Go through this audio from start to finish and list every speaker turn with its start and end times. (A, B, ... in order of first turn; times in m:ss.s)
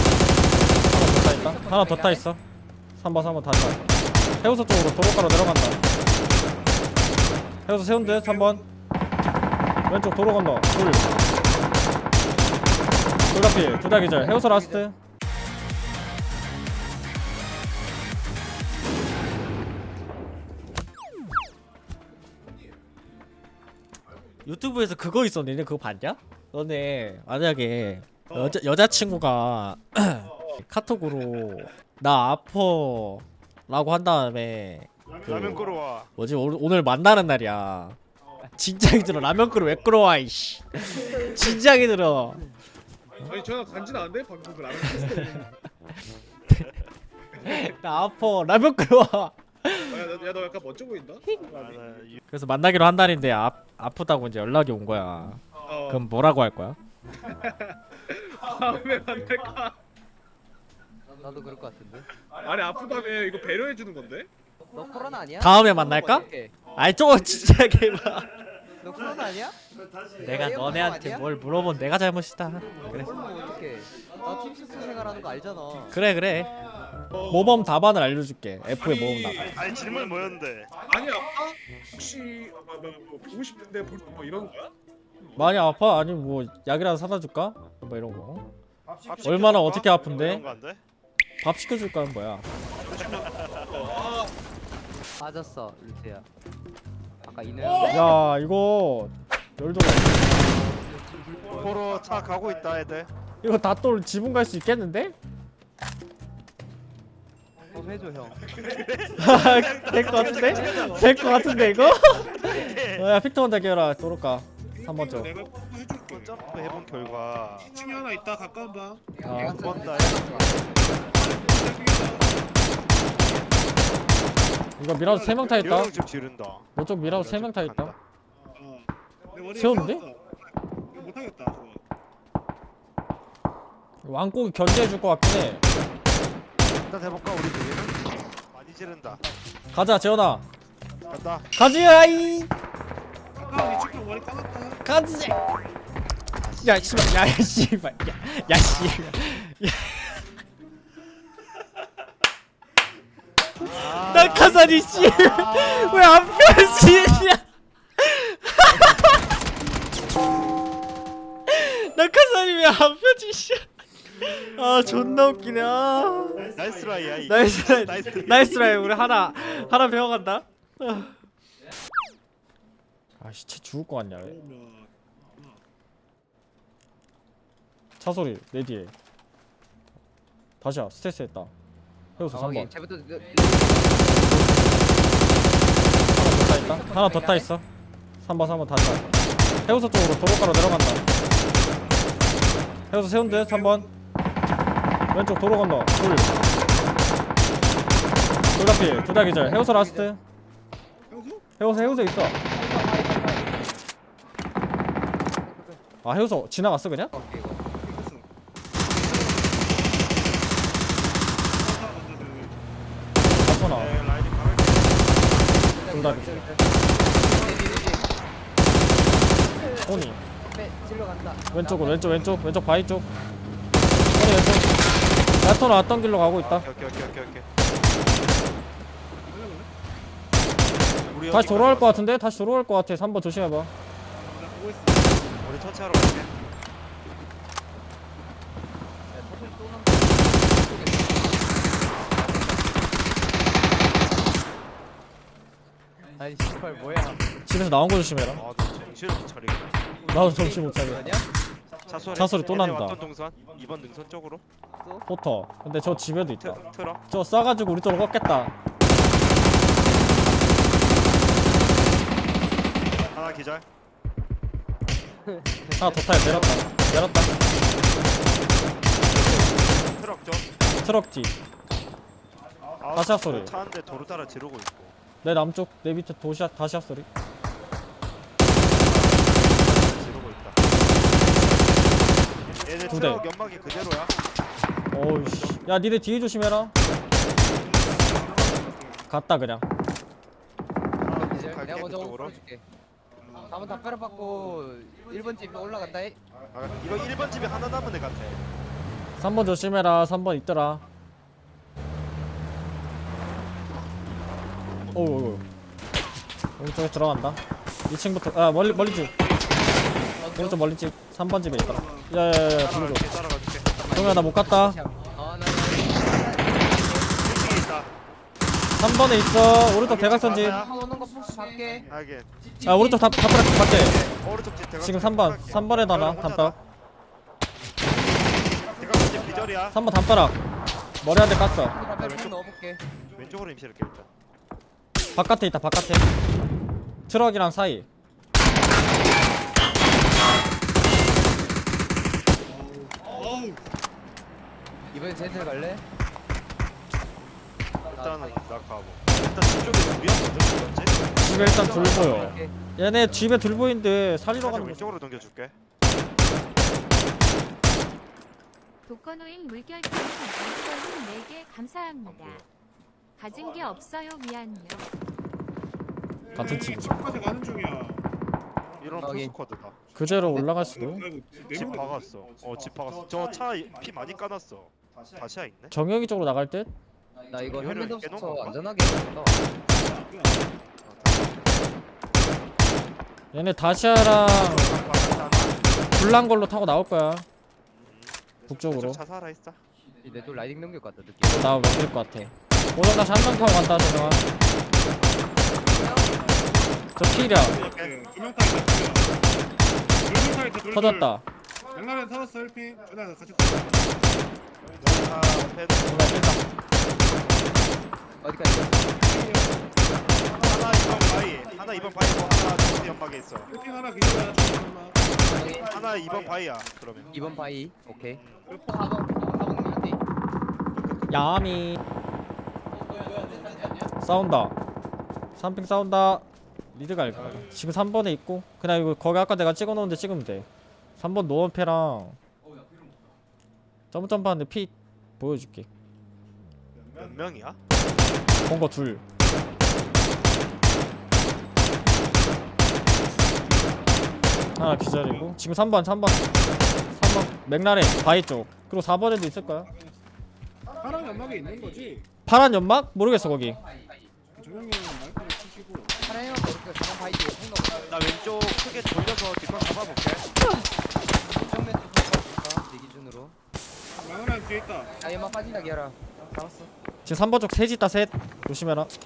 0:00.9-0:02.4 A
0:00.9-0:02.3 B
0:03.0-0:03.8 A
0:04.4-0:05.8 A
0:06.5-0:06.8 C
0:07.7-0:08.6 A
0:08.0-0:08.6 C
0:09.9-0:11.1 A
0:13.3-0:15.0 A
0:13.4-0:13.9 C
0:13.9-0:14.8 B
0:24.4-0:35.6 A
0:35.2-0:36.1 D
0:36.2-0:38.0 A
0:38.5-0:42.4 A
0:43.2-0:45.5 C
0:47.4-0:50.1 A
0:49.9-0:52.1 C
0:51.3-0:52.2 D
0:52.3-0:56.8 A
0:55.6-0:56.1 C
0:57.4-0:59.8 C
1:01.2-1:02.1 B
1:02.4-1:04.3 C
1:04.7-1:06.6 B
1:05.4-1:08.4 A
1:08.8-1:09.6 B
1:10.2-1:13.2 A
1:10.2-1:11.3 B
1:12.8-1:16.0 B
1:15.9-1:16.6 A
1:17.1-1:17.6 C
1:17.1-1:19.6 A
1:18.8-1:19.4 C
1:19.5-1:20.7 D
1:20.8-1:24.7 C
1:25.4-1:28.5 A
1:29.0-1:30.8 D
1:29.2-1:30.4 A
1:31.4-1:32.4 A
1:32.8-1:33.9 D
1:32.9-1:34.3 C
1:35.2-1:36.2 B
1:37.2-1:38.2 B
1:37.9-1:40.4 A
1:40.7-1:41.7 B
1:41.5-1:43.1 D
1:43.4-1:45.2 A
1:47.7-1:48.4 B
1:48.5-1:53.1 D
1:49.2-1:55.3 A
1:50.4-1:51.2 C
1:54.6-1:56.4 C
1:56.1-1:57.8 D
1:57.6-1:59.2 C
1:59.2-2:00.9 B
1:59.2-1:59.7 A
1:59.3-2:00.4 D
2:01.1-2:02.8 C
2:03.1-2:03.5 D
2:04.8-2:06.0 A
2:05.0-2:05.6 C
2:05.5-2:08.0 D
2:06.7-2:07.9 A
2:08.5-2:10.2 C
2:09.5-2:10.0 A
2:10.9-2:11.8 C
2:14.0-2:15.6 A
2:16.8-2:19.2 D
2:19.7-2:20.4 A
2:21.1-2:21.5 D
2:21.5-2:22.5 A
2:23.4-2:24.8 C
2:24.8-2:25.4 A
2:26.4-2:27.2 D
2:26.6-2:30.2 A
2:28.5-2:29.1 D
2:33.6-2:37.4 A
2:33.7-2:36.1 D
2:38.0-2:39.2 A
2:41.5-2:46.5 A
2:46.5-2:48.6 D
2:47.2-2:51.1 A
2:53.2-2:54.3 A
2:54.2-2:55.6 C
2:58.0-2:58.9 A
3:00.6-3:01.5 A
3:02.2-3:02.7 A
3:02.3-3:04.5 B
3:04.2-3:04.7 A
3:06.1-3:07.6 A
3:06.2-3:07.5 B
3:08.2-3:09.0 A
3:09.6-3:11.0 A
3:12.9-3:13.9 A
3:13.2-3:13.9 C
3:15.1-3:16.3 A
3:18.5-3:20.2 A
3:19.0-3:20.1 B
3:21.1-3:21.4 C
3:21.6-3:22.4 A
3:22.4-3:23.8 B
3:25.3-3:25.8 B
3:26.0-3:27.1 A
3:27.1-3:27.6 B
3:27.8-3:28.2 C
3:28.9-3:30.1 C
3:31.5-3:32.6 C
3:33.4-3:34.0 A
3:33.7-3:35.5 D
3:35.5-3:38.0 B
3:35.9-3:36.5 A
3:37.3-3:37.8 C
3:39.4-3:42.4 B
3:39.8-3:40.2 A
3:41.5-3:43.1 A
3:44.1-3:44.8 A
3:45.4-3:46.7 A
3:46.3-3:47.5 D
3:49.3-3:49.7 C
3:51.0-3:52.1 D
3:51.3-3:53.7 A
3:54.2-3:55.6 C
3:55.4-3:56.3 D
3:59.1-4:02.9 B
4:06.1-4:07.3 B
4:07.4-4:08.4 A
4:08.3-4:09.8 D
4:10.1-4:11.3 B
4:10.1-4:11.1 A
4:11.9-4:14.4 D
4:12.1-4:13.0 A
4:14.8-4:15.0 B
4:15.1-4:18.5 A
4:15.8-4:17.0 D
4:23.0-4:23.6 D
4:25.6-4:26.6 D
4:25.8-4:27.4 A
4:29.1-4:30.5 D
4:30.8-4:31.3 A
4:32.8-4:35.0 D
4:32.9-4:33.5 A
4:35.2-4:37.1 A
4:38.5-4:44.1 D
4:42.9-4:43.2 A
4:44.9-4:46.7 A
4:47.5-4:49.1 C
4:49.1-4:49.6 A
4:51.0-4:52.4 D
4:51.1-4:52.6 B
4:53.2-4:53.7 C
4:53.4-4:56.2 B
4:56.5-4:58.4 D
4:59.2-5:00.8 A
5:04.9-5:05.4 A
5:06.6-5:09.1 A
5:08.6-5:10.2 C
5:10.2-5:10.6 B
5:10.4-5:13.0 A
5:11.4-5:12.1 C
5:12.5-5:14.1 D
5:13.8-5:17.2 B
5:13.9-5:14.8 A
5:17.2-5:17.9 D
5:18.7-5:20.6 A
5:19.8-5:20.7 D
5:20.0-5:21.9 B
5:21.9-5:22.3 D
5:22.6-5:24.1 B
5:22.6-5:24.0 A
5:23.9-5:26.6 D
5:24.8-5:26.6 A
5:28.6-5:29.8 D
5:29.7-5:30.4 A
5:31.0-5:31.8 A
5:31.6-5:32.8 B
5:32.0-5:32.4 D
5:33.1-5:34.1 D
5:35.1-5:36.2 A
5:37.1-5:37.9 A
5:42.4-5:43.6 C
5:44.9-5:45.8 B
5:47.9-5:51.0 D
5:48.0-5:48.3 B
5:51.2-5:54.9 A
5:51.2-5:52.5 B
5:51.5-5:52.4 D
5:54.3-5:55.5 D
5:58.8-6:02.4 E
6:02.0-6:02.4 D
6:03.2-6:04.9 E
6:06.3-6:07.0 A
6:06.3-6:08.1 C
6:08.8-6:09.8 D
6:09.0-6:09.3 B
6:09.9-6:11.1 A
6:10.0-6:12.2 C
6:11.5-6:15.7 D
6:15.7-6:16.7 A
6:17.3-6:19.4 B
6:17.4-6:18.6 D
6:19.7-6:20.5 C
6:20.8-6:21.6 D
6:23.3-6:24.8 A
6:24.3-6:25.8 D
6:25.0-6:25.5 B
6:25.9-6:27.2 A
6:27.8-6:29.6 D
6:28.5-6:29.0 A
6:30.0-6:31.6 B
6:31.3-6:34.2 A
6:35.5-6:36.8 B
6:35.6-6:39.2 C
6:37.0-6:37.6 A
6:37.1-6:37.9 D
6:40.0-6:41.1 C
6:40.7-6:41.2 A
6:41.7-6:43.9 C
6:44.8-6:46.4 D
6:45.9-6:46.4 A
6:48.2-6:49.0 B
6:49.0-6:49.7 C
6:50.4-6:53.5 D
6:53.5-6:55.1 C
6:55.2-6:55.7 B
6:55.6-6:57.1 D
6:57.1-7:00.0 B
6:58.2-6:58.5 D
6:58.5-6:58.8 C
7:00.7-7:01.2 D
7:01.1-7:01.8 A
7:04.0-7:04.5 A
7:05.4-7:10.5 A
7:11.0-7:12.2 A
7:13.9-7:15.7 A
7:17.0-7:17.6 D
7:18.4-7:19.0 A
7:23.4-7:25.3 C
7:24.6-7:26.2 A
7:26.9-7:29.7 A
7:29.5-7:30.0 C
7:30.8-7:32.0 C
7:32.3-7:33.6 A
7:33.6-7:34.1 B
7:34.3-7:36.0 C
7:36.0-7:38.0 B
7:37.9-7:40.2 D
7:41.2-7:43.3 B
7:43.9-7:45.0 C
7:44.9-7:46.7 B
7:47.0-7:48.9 A